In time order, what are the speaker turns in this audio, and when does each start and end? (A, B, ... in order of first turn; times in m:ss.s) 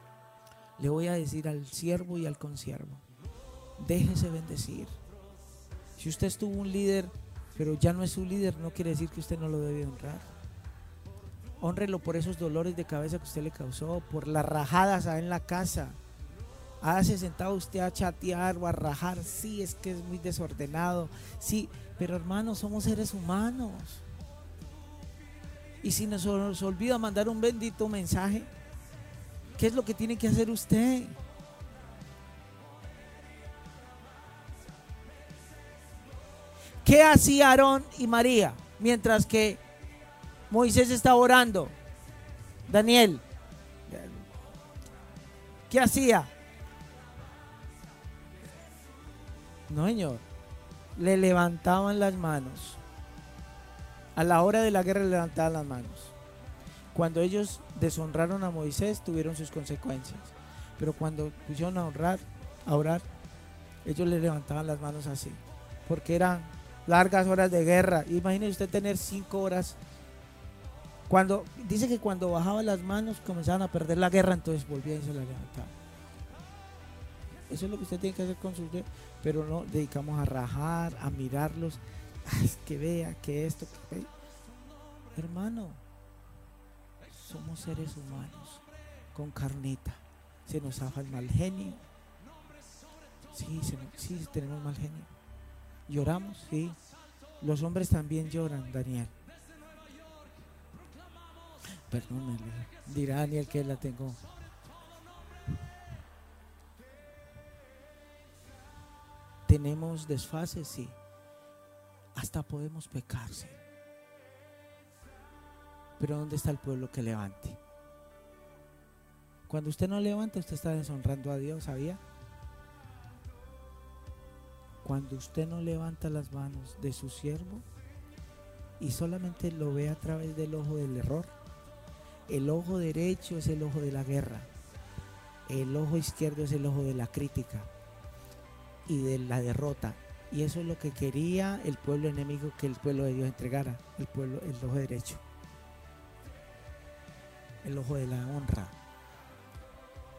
0:00.8-0:03.0 A
0:03.8-0:05.0 A
0:06.0-0:10.3 A
0:11.6-0:16.0 A
0:16.8-0:24.0 A
0:25.8-0:28.5 A
0:29.6-0:31.2 A
0:36.8-0:39.6 A
0:40.5-0:41.8 A
0:42.7-0:43.2 A
0:43.9-0:44.2 A
0:45.7-0:46.3 A
0:49.7-0:50.2 A
0:51.0-0:52.8 A
0:54.2-0:56.1 A
0:56.9-1:03.0 A
1:03.8-1:09.8 A
1:11.1-1:15.7 A
1:17.5-1:24.1 A
1:25.2-1:25.8 A
1:27.1-1:28.6 A
1:29.1-1:31.8 A
1:33.3-1:35.1 A
1:35.9-1:36.8 A
1:37.4-1:39.1 A
1:41.9-1:44.2 A
1:49.5-1:51.0 A
1:52.2-1:53.6 A
1:56.0-1:57.6 A
1:59.5-2:02.0 A
2:04.8-2:07.6 A
2:08.8-2:11.3 A
2:12.3-2:14.5 A
2:15.5-2:17.7 A
2:18.9-2:25.2 A
2:27.6-2:28.7 A